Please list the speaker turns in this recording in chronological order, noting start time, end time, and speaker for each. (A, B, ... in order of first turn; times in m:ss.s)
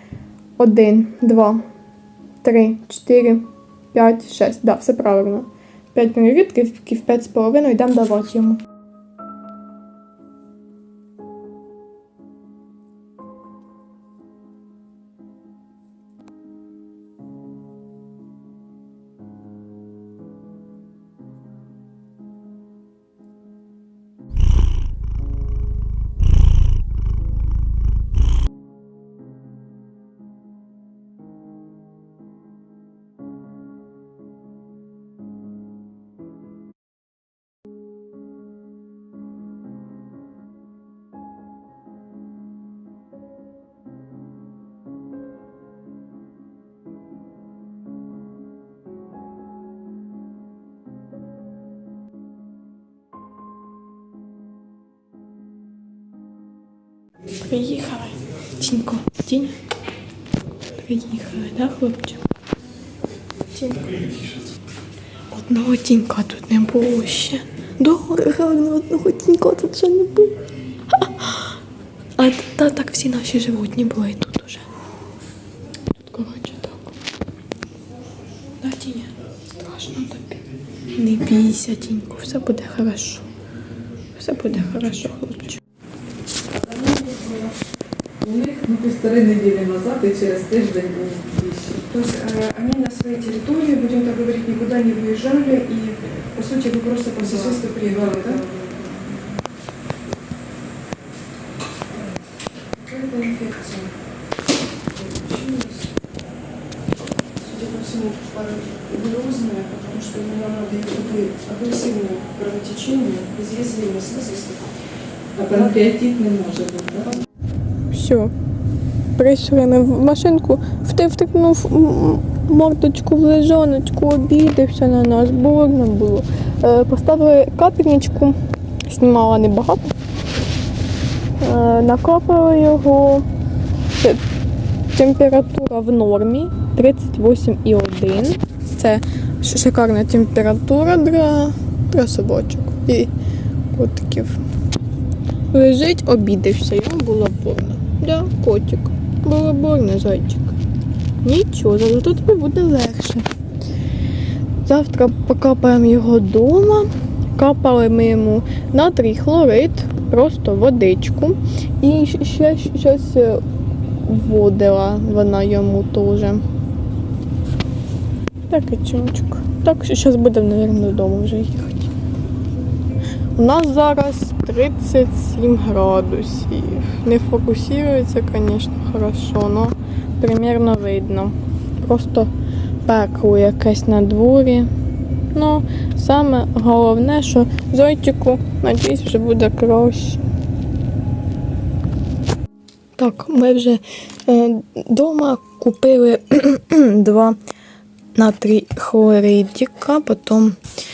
0:00.6-0:01.6 A
0:02.4-0:08.6 A
0:57.4-0:59.5 A
1:00.8-1:02.2 A
1:03.5-1:04.0 A
1:05.3-1:10.4 A
1:10.9-1:11.5 A
1:12.2-1:14.7 A
1:16.0-1:16.9 A
1:18.6-1:20.4 A
1:20.9-1:23.3 A
1:24.1-1:25.6 A
1:26.6-1:27.5 B
1:28.2-1:31.9 C
1:31.9-1:38.4 B
1:37.5-1:39.0 C
1:42.8-1:43.9 B
1:45.0-1:45.8 B
1:47.4-1:54.7 B
1:55.4-1:57.1 C
1:57.9-1:58.3 A
1:59.2-2:09.9 A
2:11.4-2:13.3 A
2:13.9-2:14.2 A
2:14.9-2:23.1 A
2:23.7-2:24.4 A
2:25.5-2:30.6 A
2:31.2-2:33.3 A
2:34.6-2:43.4 A
2:44.0-2:46.4 A
2:48.5-2:51.9 A
2:53.3-3:02.3 A
3:02.8-3:04.7 A
3:05.3-3:10.2 A
3:13.0-3:17.4 A
3:18.1-3:20.6 A